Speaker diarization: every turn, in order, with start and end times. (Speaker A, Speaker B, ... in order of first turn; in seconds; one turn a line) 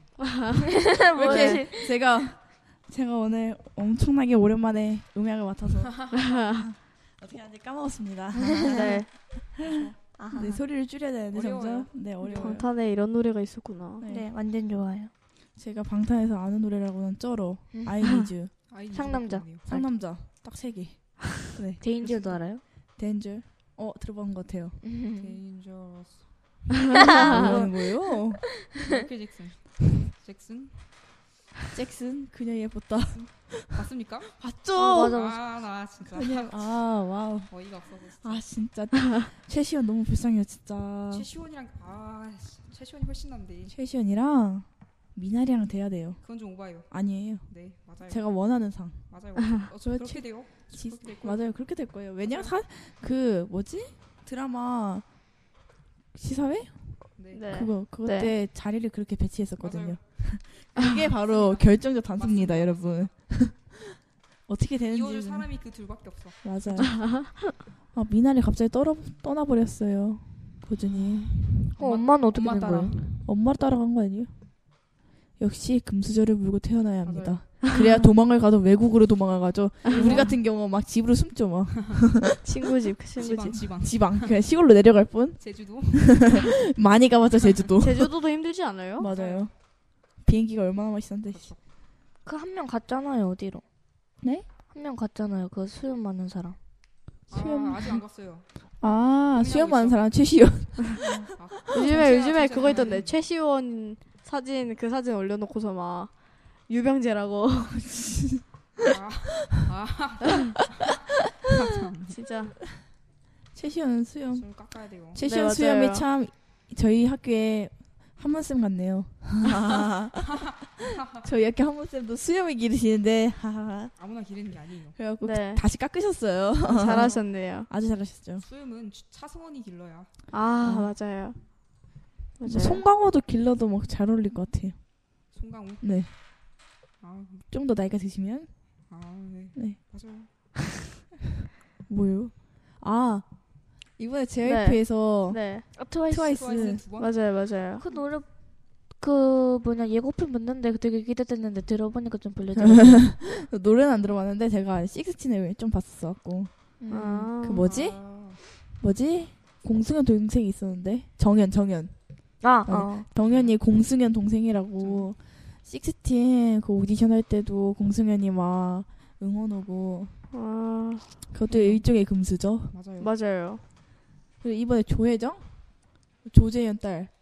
Speaker A: 0.3-1.6
Speaker B: 0.8-1.9
Speaker C: 1.2-12.7
Speaker A: 6.1-6.6
Speaker A: 8.7-9.1
Speaker D: 9.7-9.9
Speaker B: 10.2-10.6
Speaker D: 11.3-12.6
Speaker A: 12.3-14.0
Speaker C: 14.0-14.3
Speaker B: 14.1-15.1
Speaker C: 15.6-18.5
Speaker D: 18.7-19.7
Speaker B: 18.9-19.9
Speaker C: 19.7-22.4
Speaker B: 21.8-22.6
Speaker C: 23.0-24.8
Speaker B: 24.8-25.4
Speaker D: 25.2-26.3
Speaker A: 27.0-27.6
Speaker C: 27.1-28.4
Speaker D: 27.1-27.6
Speaker D: 28.8-30.9
Speaker C: 31.7-33.8
Speaker D: 33.1-34.3
Speaker C: 34.3-35.2
Speaker B: 34.8-35.4
Speaker D: 35.1-36.6
Speaker C: 36.0-37.5
Speaker D: 37.5-38.4
Speaker C: 38.2-41.3
Speaker D: 41.1-43.7
Speaker C: 43.7-46.2
Speaker D: 46.2-48.2
Speaker C: 46.9-47.5
Speaker C: 48.0-49.1
Speaker D: 49.1-51.5
Speaker C: 49.8-55.0
Speaker D: 52.2-52.5
Speaker C: 56.1-56.8
Speaker D: 57.2-57.5
Speaker A: 57.3-58.3
Speaker C: 57.5-65.5
Speaker D: 59.6-60.3
Speaker D: 61.2-63.1
Speaker D: 64.9-66.9
Speaker C: 66.4-67.2
Speaker A: 66.8-67.4
Speaker C: 67.9-71.3
Speaker D: 70.8-73.2
Speaker B: 71.8-72.9
Speaker C: 73.2-74.3
Speaker C: 75.4-82.4
Speaker D: 77.0-77.8
Speaker A: 79.8-80.2
Speaker D: 79.9-80.3
Speaker A: 82.4-83.6
Speaker D: 83.2-84.3
Speaker C: 83.8-88.1
Speaker D: 85.4-86.5
Speaker A: 87.8-89.1
Speaker C: 89.0-89.5
Speaker D: 89.0-89.5
Speaker C: 90.2-91.5
Speaker D: 91.3-91.6
Speaker B: 92.2-93.6
Speaker B: 94.7-96.6
Speaker C: 97.3-98.0
Speaker D: 97.3-98.5
Speaker C: 98.8-101.8
Speaker D: 99.3-100.0
Speaker D: 101.2-103.1
Speaker A: 101.7-106.1
Speaker A: 106.7-107.8
Speaker C: 107.8-108.4
Speaker D: 108.8-110.7
Speaker D: 111.5-112.2
Speaker A: 112.1-112.5
Speaker C: 113.5-114.5
Speaker D: 114.3-115.2
Speaker C: 115.1-120.5
Speaker A: 115.2-116.0
Speaker D: 120.4-121.2
Speaker C: 121.1-123.9
Speaker D: 124.0-125.0
Speaker C: 125.0-128.4
Speaker A: 125.2-125.6
Speaker A: 126.6-127.7
Speaker D: 128.4-130.1
Speaker A: 130.3-131.4
Speaker C: 130.6-130.9
Speaker A: 132.4-132.8
Speaker C: 132.4-134.8
Speaker D: 135.3-136.0
Speaker C: 135.8-136.1
Speaker D: 137.0-137.5
Speaker C: 137.5-138.5
Speaker D: 138.9-140.3
Speaker C: 139.5-139.8
Speaker C: 141.9-143.2
Speaker C: 144.0-145.4
Speaker A: 144.4-145.7
Speaker B: 145.8-146.6
Speaker C: 146.1-146.8
Speaker D: 146.3-147.1
Speaker A: 147.0-147.8
Speaker B: 147.8-148.3
Speaker B: 148.9-153.1
Speaker C: 152.6-156.5
Speaker B: 156.8-157.3
Speaker A: 156.9-157.6
Speaker C: 157.4-158.0
Speaker D: 157.6-158.4
Speaker C: 158.8-161.9
Speaker B: 162.4-163.1
Speaker C: 162.6-170.2
Speaker D: 164.8-165.1
Speaker A: 170.3-171.1
Speaker C: 171.3-172.7
Speaker D: 171.5-171.8
Speaker D: 172.7-173.1
Speaker A: 173.0-173.6
Speaker C: 174.4-175.4
Speaker C: 176.2-177.1